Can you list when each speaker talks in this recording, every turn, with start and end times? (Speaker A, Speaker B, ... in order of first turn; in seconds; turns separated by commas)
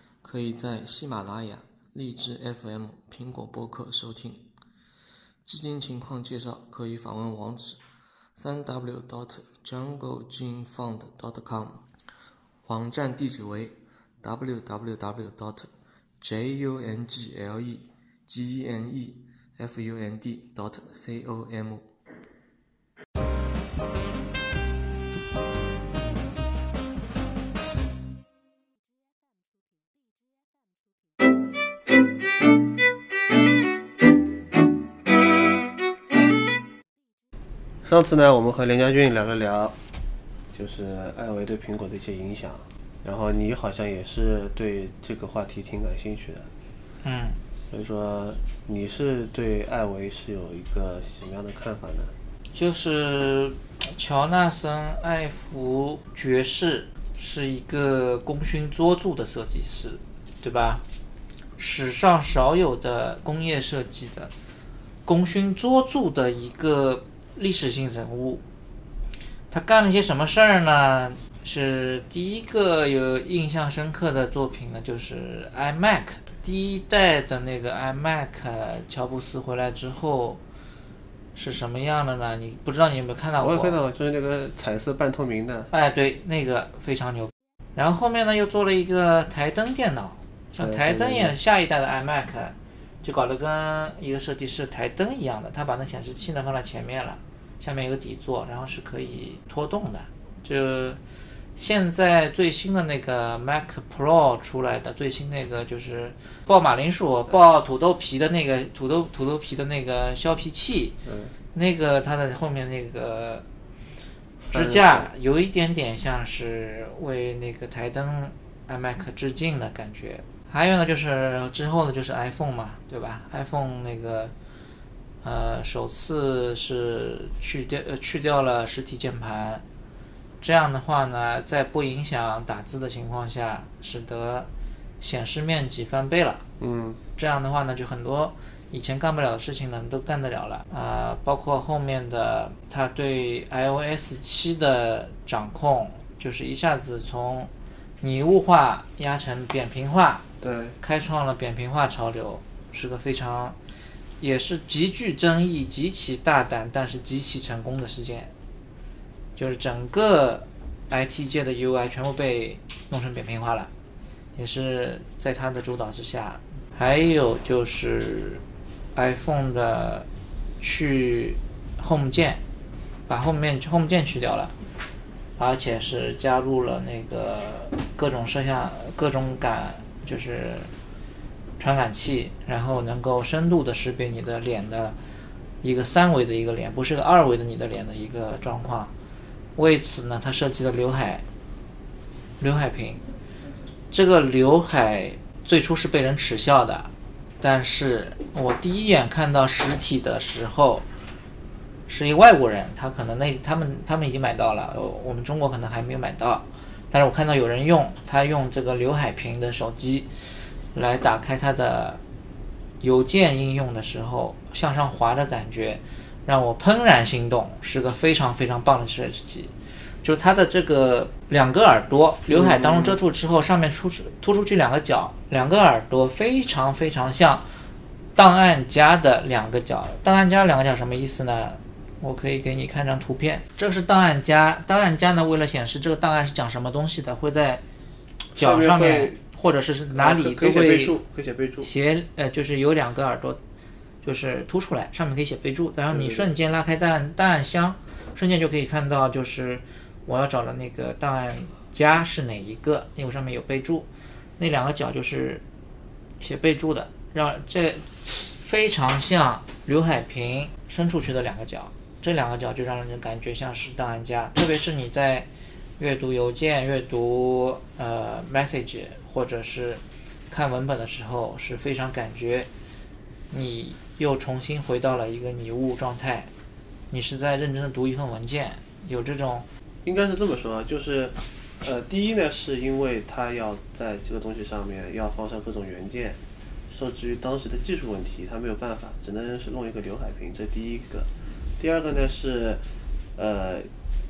Speaker A: 0.2-4.5, Speaker A: 5.5-7.8, Speaker A: 8.3-11.8, Speaker A: 12.6-21.9, Speaker B: 37.8-39.8, Speaker B: 40.5-46.5, Speaker C: 47.0-47.4, Speaker B: 47.7-52.1, Speaker C: 52.5-60.8, Speaker C: 61.6-64.3, Speaker C: 65.1-68.4, Speaker C: 69.5-80.4, Speaker C: 81.4-83.8, Speaker B: 83.4-85.7, Speaker C: 85.7-101.0, Speaker B: 90.6-91.4, Speaker C: 101.6-111.0, Speaker B: 111.1-111.3, Speaker C: 111.5-113.5, Speaker C: 114.5-124.3, Speaker B: 114.5-115.1, Speaker C: 125.2-129.6, Speaker C: 130.4-134.5, Speaker C: 135.0-136.4, Speaker B: 136.6-137.0, Speaker C: 137.2-147.5, Speaker C: 148.0-150.2, Speaker B: 150.4-150.8, Speaker C: 150.8-153.6, Speaker C: 154.2-158.3, Speaker C: 159.4-163.7, Speaker C: 164.4-168.4, Speaker C: 168.9-170.1, Speaker C: 170.6-172.4, Speaker C: 173.1-174.5, Speaker C: 175.4-180.7, Speaker C: 181.6-185.0, Speaker C: 185.6-188.9, Speaker C: 189.6-191.2, Speaker C: 192.4-193.0, Speaker C: 193.9-200.8, Speaker C: 201.9-210.1, Speaker C: 210.7-212.0, Speaker C: 212.8-219.5, Speaker C: 220.0-227.5, Speaker B: 222.3-223.0, Speaker C: 228.2-237.6, Speaker C: 238.3-240.9, Speaker B: 238.3-239.2, Speaker B: 239.9-241.7, Speaker C: 241.6-243.4, Speaker C: 244.0-253.9, Speaker B: 245.9-246.3, Speaker C: 254.4-255.4, Speaker C: 256.2-265.3, Speaker C: 265.8-272.5, Speaker C: 273.3-276.3, Speaker C: 276.9-279.4, Speaker B: 279.9-286.2, Speaker B: 286.7-291.1, Speaker B: 291.6-292.6, Speaker B: 293.2-293.7